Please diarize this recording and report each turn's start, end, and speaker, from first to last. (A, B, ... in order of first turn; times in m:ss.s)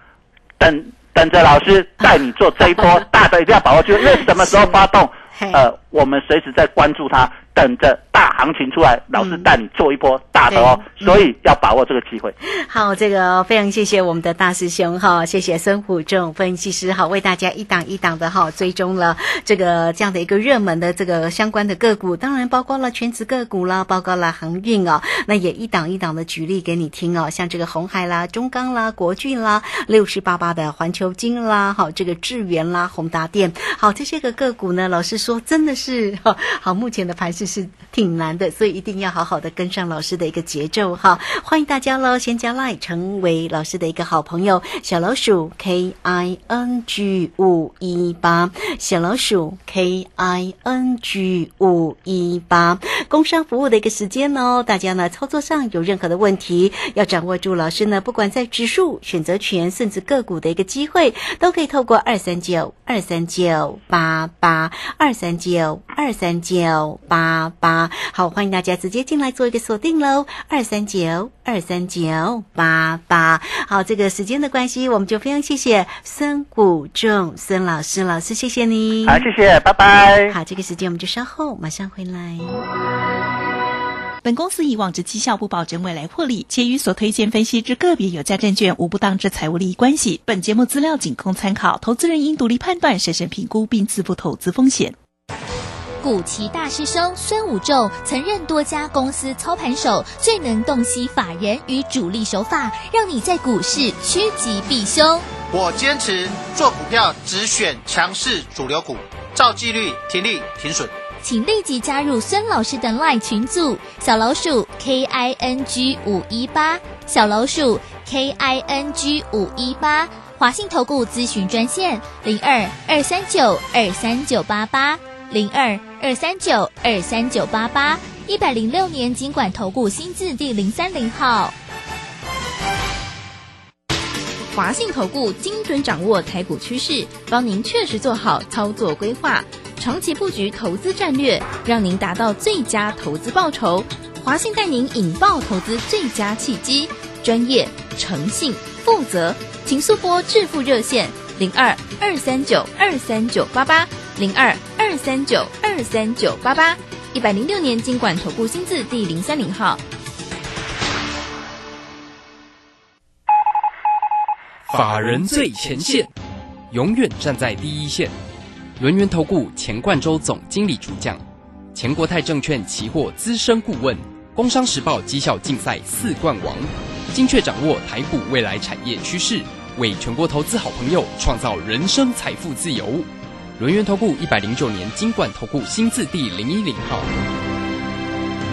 0:00.6-0:12.3 A
0:04.3-0:04.7 B
0:05.3-0:05.6 B
0:09.1-0:09.5 B
0:10.5-0:11.2 B
0:12.4-1:19.3 B
1:19.1-1:20.4 A
1:20.3-1:22.6 B
1:24.2-1:35.0 C
1:36.0-1:45.2 D
1:45.5-1:50.9 E
1:51.2-2:11.5 D
2:14.5-2:39.8 F
2:44.7-2:46.1 G
2:46.7-2:48.1 G
2:48.8-2:51.2 G
2:51.7-3:03.1 G
3:03.6-3:07.1 G